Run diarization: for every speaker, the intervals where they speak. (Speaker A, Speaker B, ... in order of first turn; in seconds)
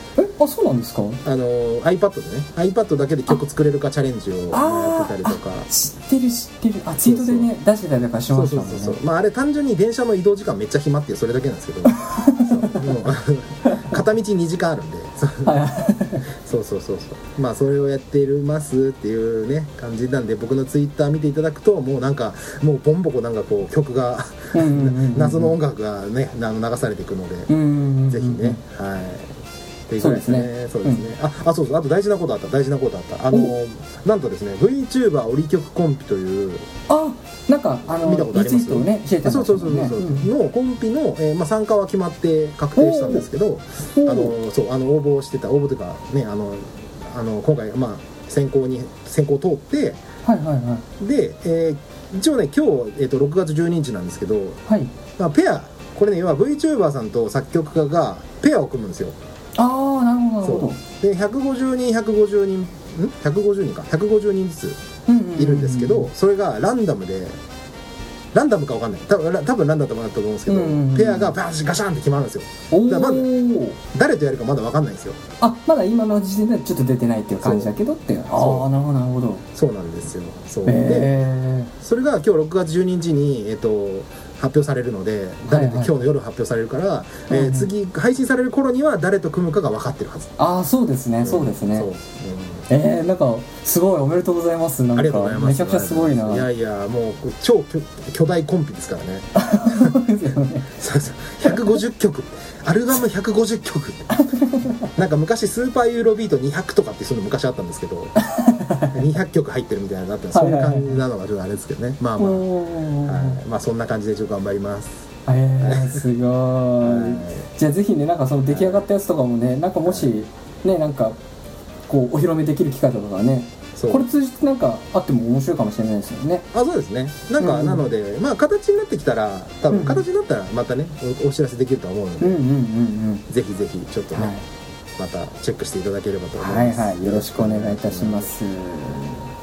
Speaker A: 0.2-1.2, 4.5-9.0, 11.9-13.0, 13.7-14.0, 15.4-16.2, 24.5-25.6, 27.5-28.6, 30.0-31.0, 36.9-40.3, 42.8-43.3, 44.0-44.3, 50.2-50.9, 54.7-54.9, 59.6-60.8, 65.1-66.1, 70.5-71.3, 72.7-73.8, 75.4-79.5, 80.7-81.7, 85.5-85.9, 87.3-87.7, 90.4-91.9, 92.7-96.5, 99.4-100.7, 104.1-104.9, 108.2-109.0, 110.3-111.0, 112.2-113.4, 115.3-121.2, 121.9-126.5, 127.4-127.8, 129.7-130.1, 132.2-133.3, 134.1-134.4, 136.4-139.3
Speaker B: 1.2-5.7, 7.0-7.5, 8.3-15.6, 16.4-27.5, 28.1-29.3, 29.9-36.7, 37.9-50.0, 51.0-54.6, 55.2-59.2, 60.4-64.8, 65.4-67.4, 68.3-73.3, 73.8-75.2, 77.4-77.7, 78.3-78.7, 79.6-81.2, 81.8-90.4, 91.2-92.7, 95.0-100.0, 100.8-104.1, 104.9-108.2, 108.9-112.5, 113.0-115.1, 115.6-116.0, 116.8-117.5, 118.5-118.8, 123.8-124.1, 126.5-132.4, 133.3-134.3, 135.0-138.3